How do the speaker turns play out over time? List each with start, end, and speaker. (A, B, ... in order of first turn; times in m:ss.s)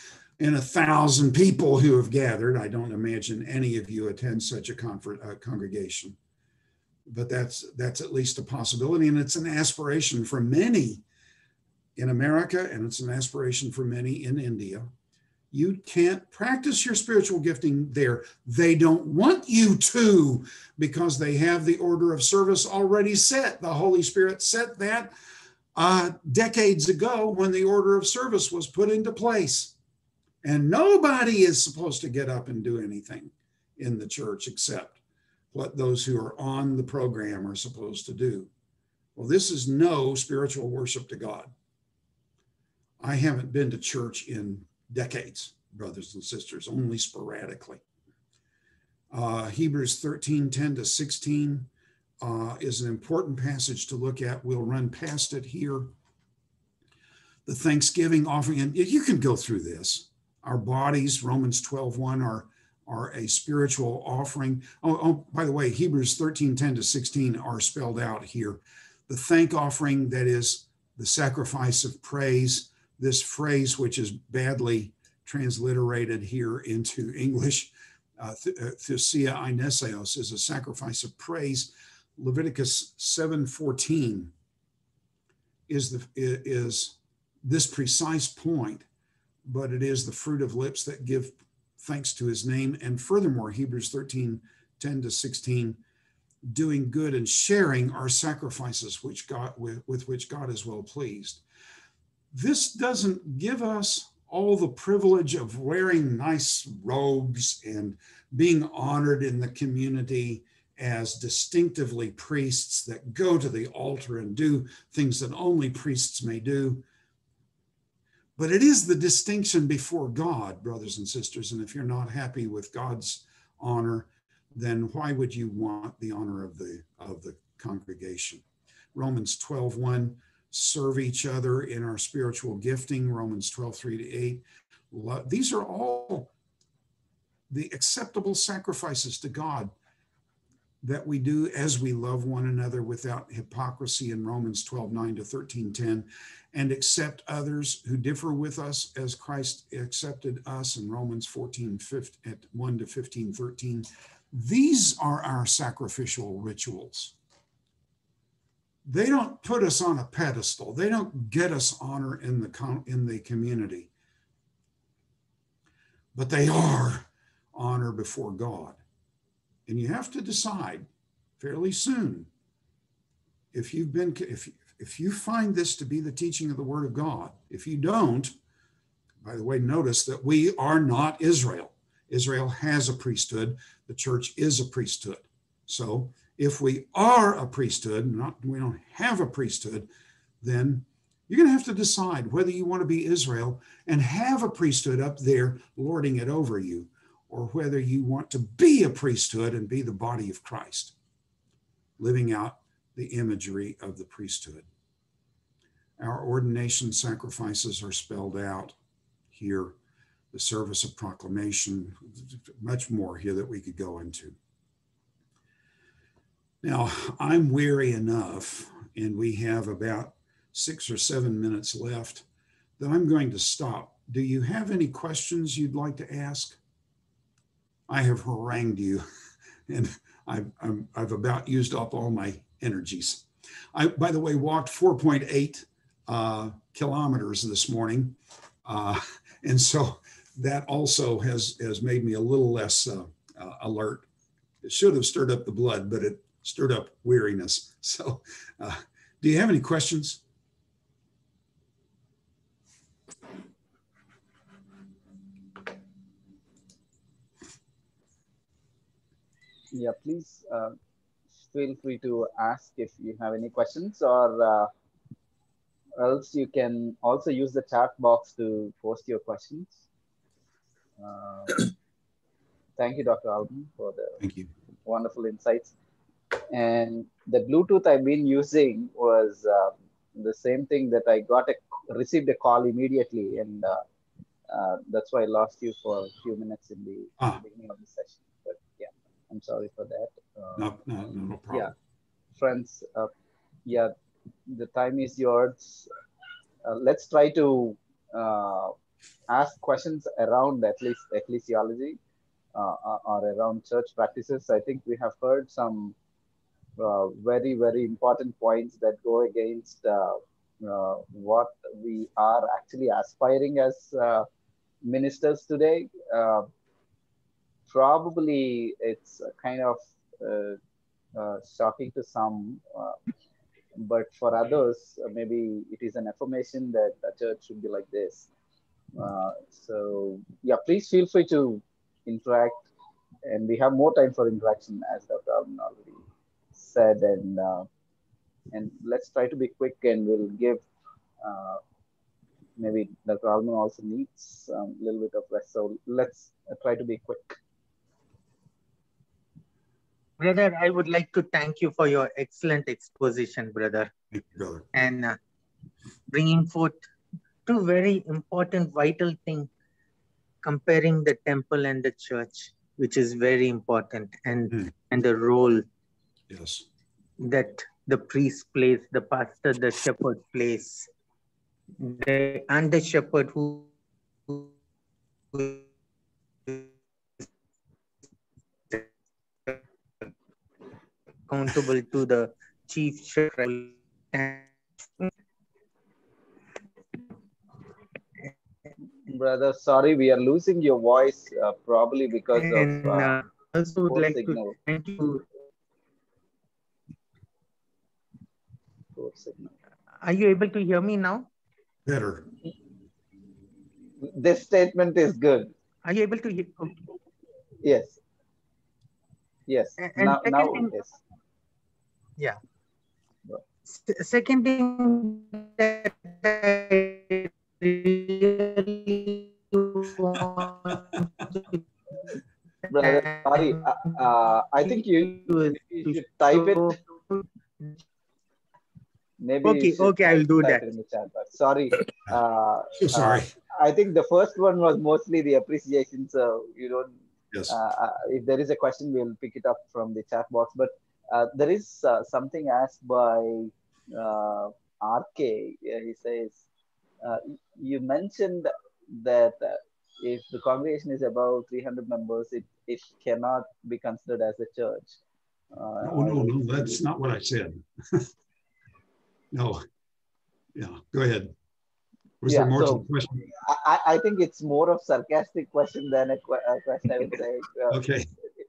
0:00.4-0:06.2 A
0:07.1-0:11.0 A
0:12.0-0:14.9 A
0:15.5-0:25.1 A
0:25.8-0:29.7 A
0:30.4-0:35.0 A
0:35.5-0:38.5 A
0:39.2-0:41.5 A
0:43.0-0:47.8 A
0:49.1-0:51.7 A
0:52.2-0:55.9 A
0:57.5-1:24.3 A
1:25.7-1:28.9 A
1:29.4-1:35.8 A
1:36.4-1:41.4 A
1:42.3-1:56.8 A
1:58.4-2:08.4 A
2:09.0-2:16.3 A
2:17.5-2:19.7 A
2:20.8-2:37.1 A
2:38.8-2:43.9 A
2:46.1-2:48.8 A
2:49.7-2:50.9 A
2:51.4-2:52.3 A
2:53.5-2:58.3 A
2:59.2-3:09.9 A
3:10.4-3:20.9 A
3:22.0-3:24.7 A
3:26.0-3:28.8 A
3:29.3-3:29.7 A
3:30.3-3:34.4 A
3:36.6-3:42.2 A
3:42.8-3:46.6 A
3:47.9-3:49.0 A
3:49.7-4:04.1 A
4:04.6-4:10.2 A
4:19.7-4:20.8 B
4:21.5-4:24.7 B
4:26.0-4:29.8 B
4:31.0-4:31.7 B
4:32.8-4:34.2 B
4:34.2-4:34.5 A
4:34.8-4:35.7 B
4:36.5-4:43.8 B
4:44.5-4:50.7 B
4:50.6-4:51.7 A
4:52.4-4:53.1 B
4:53.7-4:53.9 B
4:54.5-4:55.9 B
4:56.6-4:58.7 B
4:59.3-5:02.0 B
5:02.6-5:06.0 B
5:06.8-5:14.3 B
5:14.8-5:16.5 B
5:17.7-5:20.6 B
5:21.2-5:23.0 B
5:23.8-5:28.3 B
5:29.0-5:32.7 B
5:33.3-5:36.0 B
5:36.6-5:37.7 B
5:38.5-5:40.7 B
5:41.2-5:41.6 B
5:42.6-5:47.4 B
5:50.2-5:53.9 C
5:54.1-5:54.6 A
5:54.8-5:55.1 C
5:56.1-5:56.8 C
5:57.5-5:59.5 C
6:00.4-6:05.6 C
6:06.3-6:06.7 A
6:07.2-6:10.8 C
6:11.8-6:13.6 C
6:21.3-6:24.4 C
6:29.1-6:33.2 B
6:32.4-6:35.2 C
6:33.9-6:34.6 B
6:39.0-6:39.5 B
6:40.0-6:41.3 C
6:41.9-6:42.2 A
6:44.0-6:45.5 B
6:45.9-6:46.7 C
6:47.6-6:48.0 B
6:49.5-6:51.0 B
6:49.8-6:50.7 C
6:53.8-7:01.1 C
7:02.7-7:06.8 B
7:02.8-7:03.5 C
7:05.3-7:07.2 C
7:09.2-7:16.9 B
7:09.4-7:10.6 C
7:12.8-7:13.3 A
7:17.5-7:26.4 B
7:27.0-7:35.0 B
7:35.5-7:36.8 B
7:35.8-7:38.0 A
7:39.3-7:39.6 A
7:40.6-7:41.3 A
7:42.2-7:43.2 A
7:42.3-7:47.8 B
7:47.7-7:48.1 A